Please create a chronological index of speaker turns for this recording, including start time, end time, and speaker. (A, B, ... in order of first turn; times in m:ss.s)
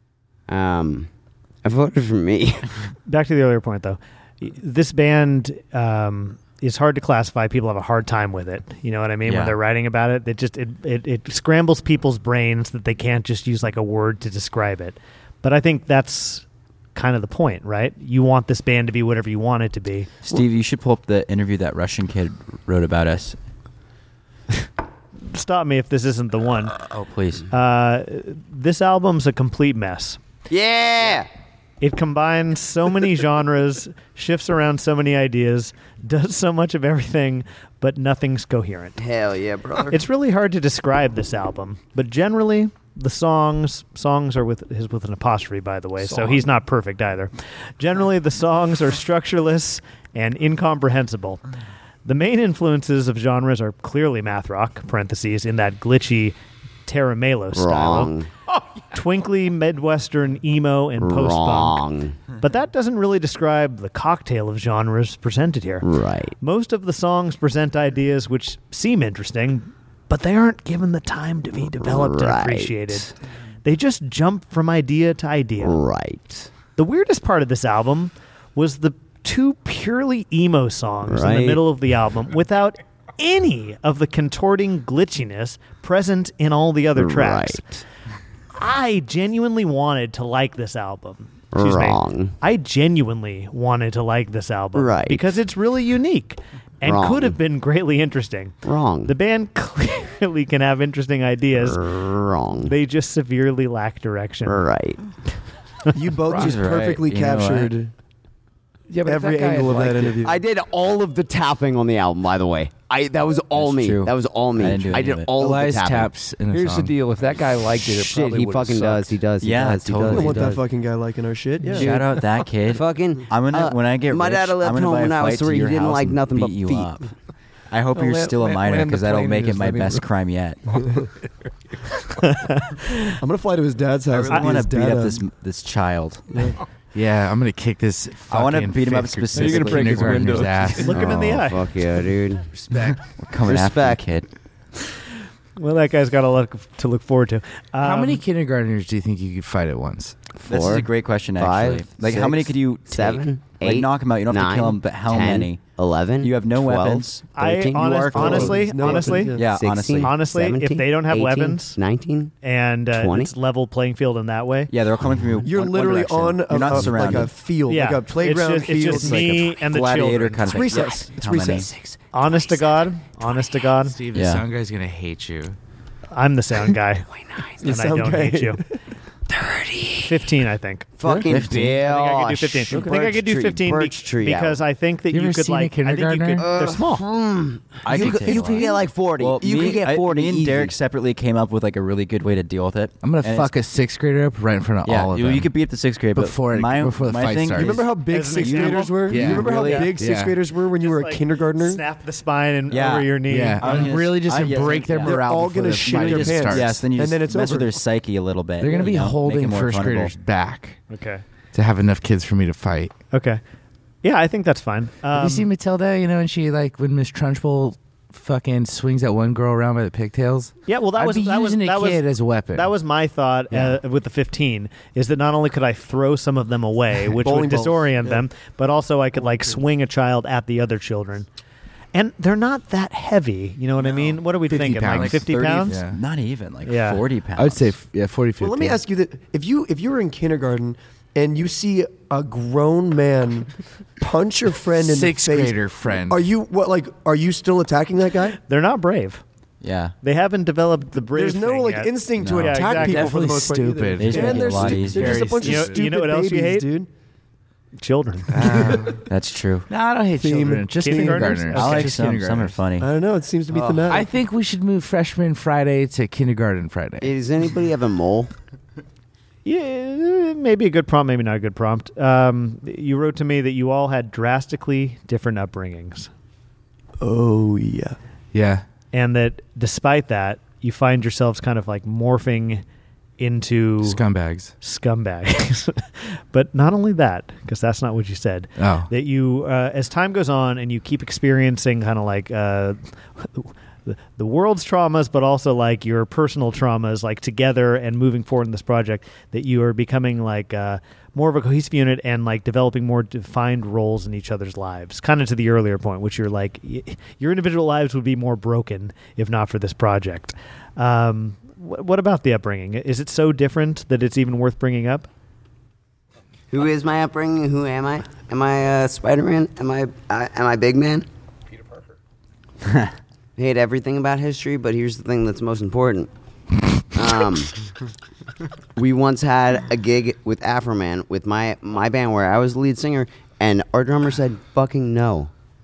0:00.5-0:01.1 A
0:01.6-0:02.7 A
0:03.1-0:20.1 B
0:09.2-0:09.6 C
0:20.2-0:23.4 C
0:25.2-0:26.8 B
0:26.8-0:27.4 C
0:27.5-0:30.2 B
0:30.5-0:31.3 A
0:31.8-0:39.0 B
0:39.0-0:40.0 A
0:39.9-0:51.4 B
0:46.1-0:46.4 D
0:52.0-0:58.1 B
0:57.5-0:58.3 A
0:58.9-1:05.9 B
1:01.0-1:02.2 A
1:05.8-1:06.4 A
1:06.4-1:13.1 B
1:11.8-1:13.1 A
1:13.6-1:15.8 B
1:15.6-1:16.5 A
1:16.8-1:27.6 B
1:21.1-1:21.6 A
1:27.0-1:27.8 A
1:28.6-1:41.8 B
1:31.5-1:32.4 A
1:34.8-1:35.3 A
1:36.8-1:37.4 A
1:38.6-1:39.1 A
1:41.6-1:42.7 A
1:42.6-1:44.7 B
1:44.5-1:45.0 A
1:45.9-1:47.9 E
1:46.3-1:47.7 C
1:48.9-1:50.1 D
1:49.0-1:50.4 E
1:50.2-1:56.1 A
1:53.5-1:55.3 C
1:54.9-1:57.0 F
1:56.5-1:59.2 D
1:57.8-2:00.6 A
1:59.4-2:00.6 C
2:00.1-2:02.0 E
2:01.7-2:02.0 D
2:01.7-2:07.1 C
2:01.8-2:02.0 A
2:02.7-2:06.9 A
2:07.7-2:10.6 C
2:07.9-2:10.1 D
2:12.2-2:13.1 B
2:13.2-2:15.2 E
2:14.1-2:16.3 C
2:16.9-2:21.5 F
2:18.3-2:20.9 C
2:19.4-2:20.7 E
2:19.6-2:19.9 D
2:20.8-2:21.7 B
2:21.3-2:22.6 A
2:22.7-2:23.0 F
2:22.8-2:24.3 C
2:23.4-2:24.0 A
2:25.6-2:28.2 B
2:27.8-2:30.2 F
2:30.4-2:42.3 A
2:30.4-2:35.6 C
2:36.2-2:37.2 C
2:37.4-2:41.8 B
2:37.8-2:38.8 C
2:38.1-2:39.5 E
2:39.3-2:40.2 C
2:42.4-2:44.7 B
2:42.9-2:43.3 A
2:44.7-2:47.3 C
2:45.4-2:49.4 E
2:47.7-2:50.5 B
2:48.8-2:51.7 C
2:50.4-2:51.7 E
2:52.1-2:54.0 B
2:52.2-2:52.8 A
2:53.9-2:55.6 F
2:54.1-2:54.4 C
2:56.1-2:57.1 B
2:57.1-2:57.6 A
2:57.6-2:58.8 E
2:57.6-2:58.6 B
2:59.3-3:00.2 A
3:00.0-3:01.0 B
3:01.0-3:04.6 A
3:01.3-3:01.8 C
3:01.6-3:07.0 B
3:05.1-3:06.5 F
3:06.4-3:10.8 A
3:07.8-3:13.5 C
3:07.9-3:08.8 F
3:13.0-3:15.5 F
3:14.8-3:20.0 C
3:16.1-3:17.8 F
3:17.5-3:21.8 E
3:18.1-3:20.0 B
3:19.1-3:20.4 F
3:20.8-3:24.0 B
3:22.7-3:25.2 C
3:23.3-3:26.8 F
3:25.0-3:27.8 E
3:25.8-3:30.1 C
3:28.6-3:30.8 F
3:30.9-3:31.2 B
3:31.5-3:33.0 F
3:33.1-3:33.4 B
3:34.0-3:35.5 B
3:35.1-3:42.7 F
3:40.7-3:51.3 B
3:47.1-3:48.2 E
3:49.2-3:49.6 E
3:51.9-3:55.8 B
3:54.4-3:56.0 F
3:54.9-3:57.7 C
3:56.6-3:57.0 B
3:57.4-3:58.8 F
3:58.4-4:08.4 E
4:04.8-4:06.2 F
4:08.5-4:09.2 B
4:09.6-4:10.0 C
4:10.0-4:13.1 B
4:11.1-4:16.9 E
4:12.2-4:12.6 C
4:12.6-4:15.8 F
4:14.0-4:15.3 C
4:15.4-4:16.7 B
4:17.8-4:18.4 B
4:18.3-4:19.0 F
4:18.4-4:18.8 E
4:19.1-4:19.7 C
4:19.7-4:22.6 F
4:20.2-4:21.3 E
4:20.8-4:22.0 B
4:21.5-4:22.9 C
4:22.8-4:24.1 E
4:23.6-4:23.9 A
4:23.9-4:27.1 F
4:27.0-4:28.3 A
4:29.4-4:36.1 B
4:37.0-4:38.0 E
4:38.3-4:38.6 F
4:38.9-4:42.6 B
4:43.2-4:44.0 B
4:43.8-4:44.5 F
4:44.6-5:15.1 B
4:48.6-4:48.9 F
5:16.5-5:21.1 A
5:23.4-5:26.1 A
5:26.9-5:27.6 A
5:28.8-5:35.3 A